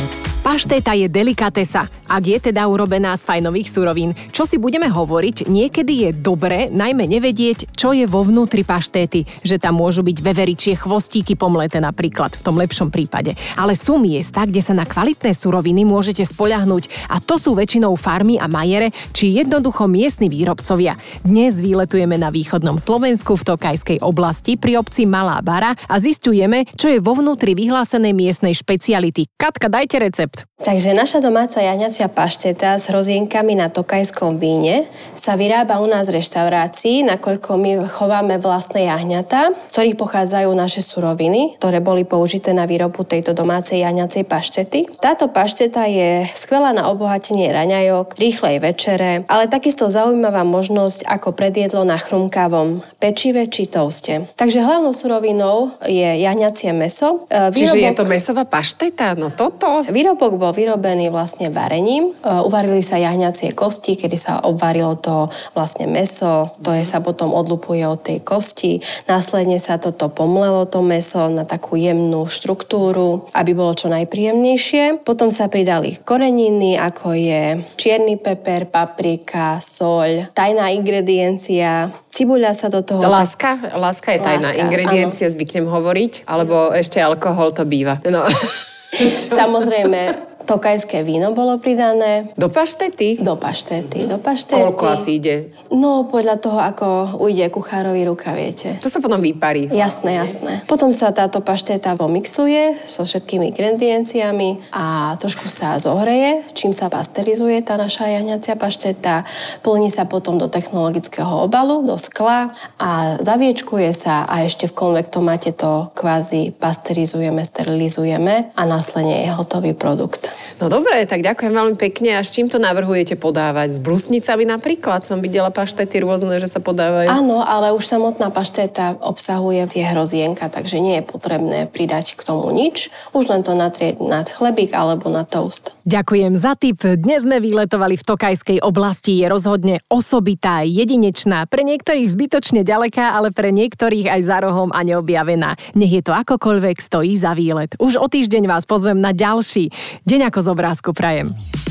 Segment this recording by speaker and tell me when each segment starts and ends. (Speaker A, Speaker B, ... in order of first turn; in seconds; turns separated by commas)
Speaker A: 0.4-30.4, Speaker B: 30.6-58.2, Speaker C: 57.5-59.9, Speaker B: 59.9-83.3, Speaker C: 83.0-89.4, Speaker B: 84.2-85.2, Speaker B: 89.0-92.3, Speaker C: 92.4-93.2, Speaker B: 93.2-95.1, Speaker C: 94.5-95.5, Speaker B: 95.7-98.8, Speaker C: 98.8-100.3, Speaker B: 99.7-120.3, Speaker C: 120.6-127.2, Speaker B: 127.1-135.7, Speaker A: 135.9-151.3